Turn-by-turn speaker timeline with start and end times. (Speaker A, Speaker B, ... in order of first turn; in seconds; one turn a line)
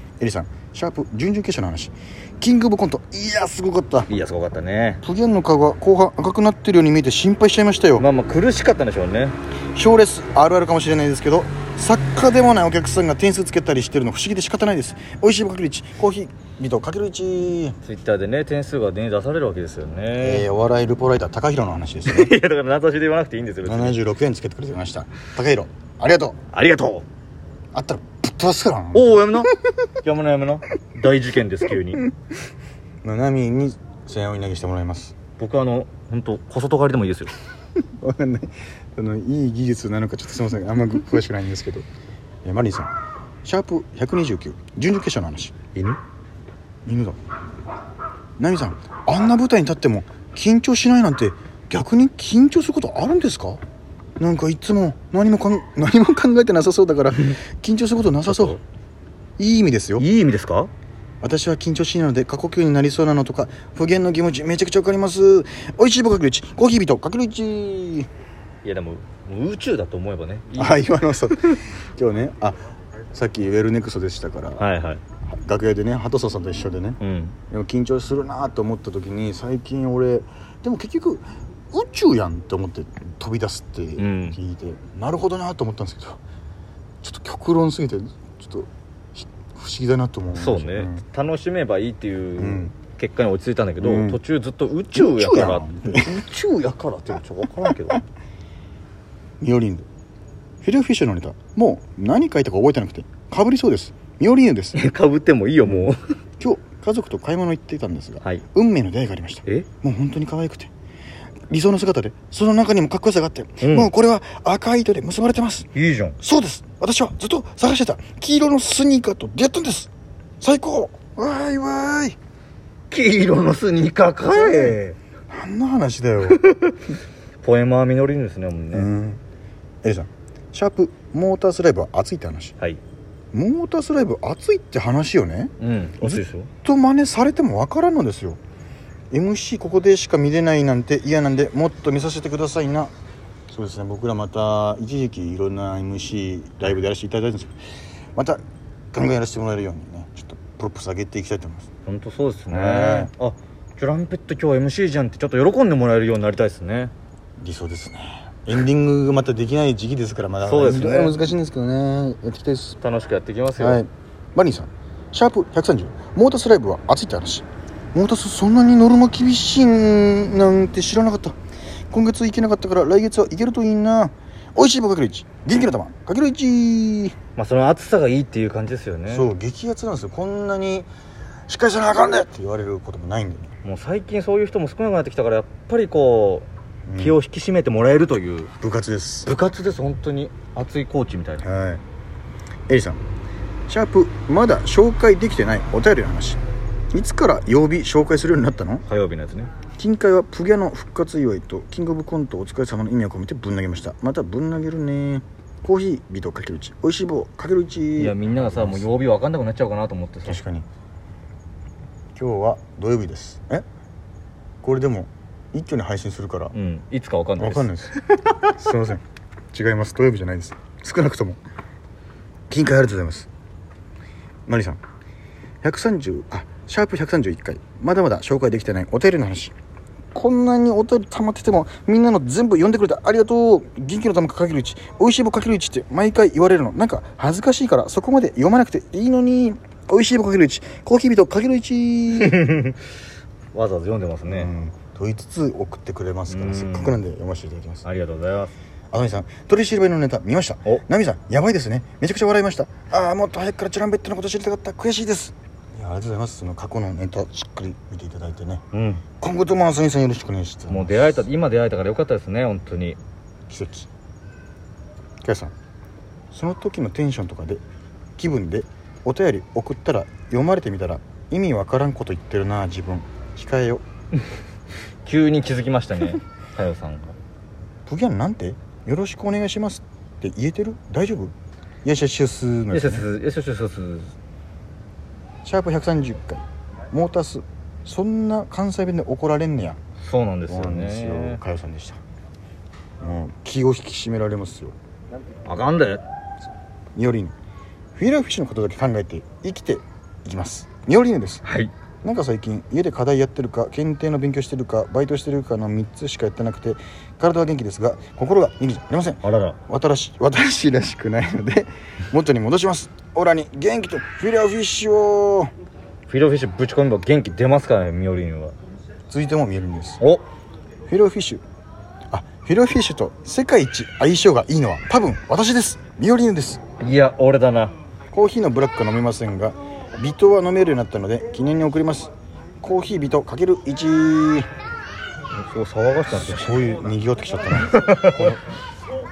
Speaker A: 0.2-4.1
Speaker B: 4.1-5.0
Speaker A: 5.0-8.1
Speaker B: 8.0-9.4
Speaker A: 9.7-17.8
Speaker B: 17.8-20.5
Speaker A: 20.2-22.3
Speaker B: 22.1-24.0
Speaker A: 23.6-26.4
Speaker B: 26.5-27.0
Speaker A: 27.7-29.5
Speaker B: 28.9-29.5
Speaker B: 30.0-32.1
Speaker A: 33.0-35.1
Speaker B: 35.4-37.4
Speaker A: 38.0-41.8
Speaker A: 42.4-42.9
Speaker A: 43.4-45.5
Speaker A: 46.8-47.1
Speaker A: 48.4-53.6
Speaker A: 54.2-58.6
Speaker B: 58.2-58.6
Speaker A: 59.4-60.0
Speaker B: 60.0-60.7
Speaker A: 61.2-68.1
Speaker B: 68.6-70.9
Speaker A: 70.6-72.6
Speaker A: 73.1-74.6
Speaker B: 74.6-75.0
Speaker A: 75.3-77.0
Speaker B: 77.0-77.3
Speaker A: 77.5-86.2
Speaker B: 84.0-84.4
Speaker A: 87.0-91.0
Speaker B: 90.3-98.0
Speaker A: 92.4-92.7
Speaker A: 93.8-94.2
Speaker A: 94.9-96.2
Speaker A: 99.4-99.8
Speaker A: 100.6-104.8
Speaker B: 104.7-106.0
Speaker A: 105.7-110.7
Speaker A: 111.5-115.7
Speaker B: 113.6-113.9
Speaker B: 115.7-116.2
Speaker A: 116.2-119.9
Speaker A: 120.4-122.2
Speaker B: 122.9-125.0
Speaker A: 124.3-124.8
Speaker A: 125.3-126.4
Speaker B: 126.2-128.9
Speaker A: 128.7-129.2
Speaker A: 129.8-132.5
Speaker A: 133.3-138.4
Speaker B: 135.6-136.5
Speaker A: 139.1-142.9
Speaker A: 143.5-147.5
Speaker A: 148.1-148.4
Speaker A: 148.9-151.7
Speaker B: 151.8-156.9
Speaker A: 152.5-153.1
Speaker A: 157.4-162.8
Speaker B: 160.4-161.2
Speaker B: 162.8-163.8
Speaker A: 163.6-171.4
Speaker A: 171.9-177.1
Speaker B: 177.3-179.3
Speaker A: 179.1-180.9
Speaker A: 181.5-183.5
Speaker B: 183.6-188.5
Speaker A: 186.9-187.2
Speaker A: 188.6-189.3
Speaker B: 189.2-191.4
Speaker A: 191.4-191.8
Speaker A: 192.7-193.0
Speaker A: 193.7-196.4
Speaker A: 196.9-198.8
Speaker B: 198.9-199.5
Speaker A: 199.8-208.9
Speaker B: 208.0-210.4
Speaker A: 210.2-210.7
Speaker A: 212.1-213.6
Speaker A: 214.6-216.5
Speaker B: 216.5-217.7
Speaker A: 217.4-221.4
Speaker A: 222.5-223.3
Speaker A: 224.5-224.8
Speaker A: 225.6-229.5
Speaker A: 230.1-242.5
Speaker B: 242.1-242.8
Speaker B: 243.5-244.5
Speaker A: 244.2-247.8
Speaker B: 246.3-247.0
Speaker B: 247.8-248.5
Speaker A: 248.9-258.6
Speaker B: 258.7-259.0
Speaker A: 259.2-261.3
Speaker B: 260.7-263.0
Speaker A: 263.5-263.9
Speaker A: 265.2-265.5
Speaker A: 266.3-267.6
Speaker A: 268.2-273.8
Speaker B: 275.0-277.1
Speaker A: 277.9-281.3
Speaker A: 281.8-283.1
Speaker B: 282.7-284.1
Speaker A: 285.4-289.8
Speaker B: 290.0-291.4
Speaker A: 290.5-292.0
Speaker A: 293.0-294.8
Speaker B: 295.4-296.0
Speaker A: 296.9-297.3
Speaker A: 297.9-301.4
Speaker B: 301.4-301.7
Speaker A: 302.0-315.5
Speaker B: 309.2-309.6
Speaker B: 316.1-318.5
Speaker A: 319.1-320.0
Speaker A: 320.9-321.4
Speaker A: 322.1-326.6
Speaker B: 326.8-327.7
Speaker A: 328.1-334.5
Speaker B: 335.3-336.6
Speaker A: 336.1-338.4
Speaker B: 337.7-338.3